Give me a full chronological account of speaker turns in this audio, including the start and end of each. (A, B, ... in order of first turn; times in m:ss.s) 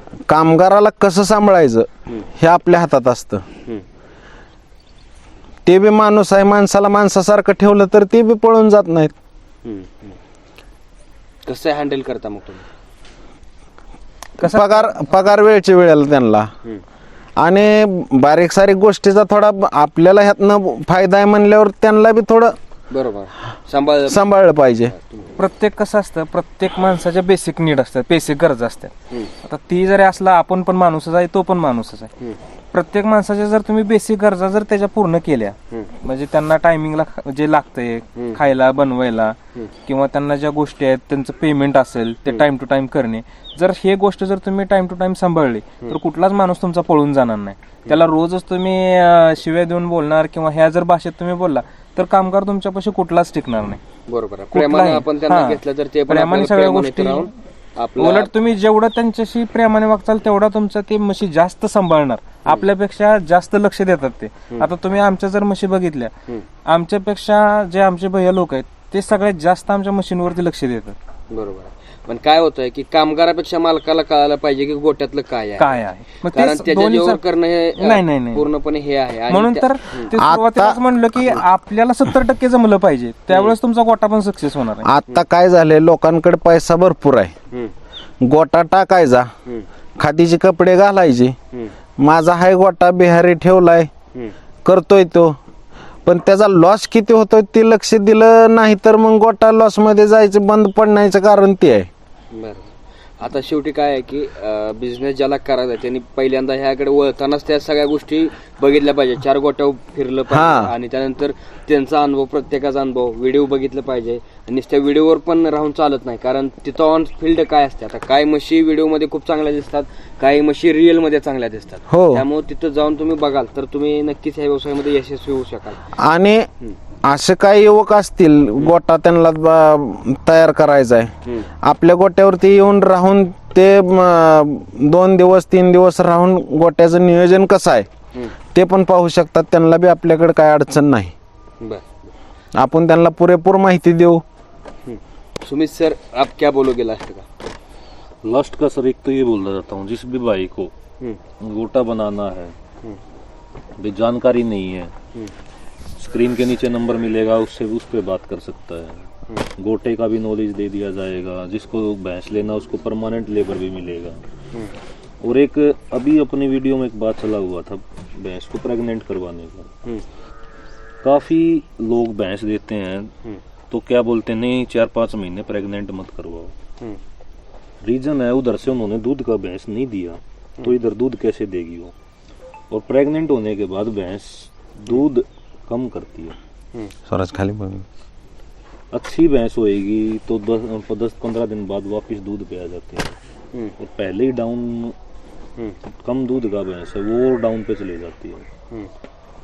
0:00.3-0:03.4 A
0:05.6-0:09.1 A
0:09.6-0:10.2 B
0:11.4-0:12.6 B
0:14.4-0:14.9 C
0:14.4-0:16.5 A
0:17.4-0:22.5 A
0:22.9-0:24.2 B
0:24.1-0:24.9 A
0:24.9-0:25.4 B
0:25.4-0:28.9 C
0:29.4-0:32.1 C
0:32.7-0:53.8 C
0:38.2-0:38.4 B
0:54.1-0:58.3 B
0:54.5-0:57.3 C
0:58.0-1:06.1 C
1:06.6-1:11.0 C
1:11.3-1:20.1 B
1:15.6-1:17.2 C
1:17.8-1:18.4 C
1:19.3-1:24.9 C
1:20.1-1:21.3 A
1:24.8-1:27.3 A
1:28.2-1:29.3 A
1:30.0-1:31.3 A
1:32.0-1:33.9 A
1:34.6-1:35.4 A
1:36.0-1:41.9 A
1:42.3-2:05.8 B
1:50.3-1:50.7 A
2:01.9-2:02.2 A
2:06.0-2:06.5 A
2:07.0-2:11.1 A
2:11.6-2:17.9 A
2:18.5-2:21.1 A
2:21.6-2:22.1 B
2:22.5-2:24.2 A
2:24.8-2:27.2 B
2:28.2-2:30.7 D
2:31.4-2:32.6 D
2:33.8-2:34.9 D
2:35.9-2:44.2 D
2:45.2-2:49.7 D
2:51.0-2:53.1 D
2:53.7-2:56.5 D
2:57.8-3:01.9 D
3:02.7-3:06.4 D
3:07.1-3:07.8 A
3:08.9-3:13.2 D
3:13.8-3:14.9 D
3:15.9-3:18.4 D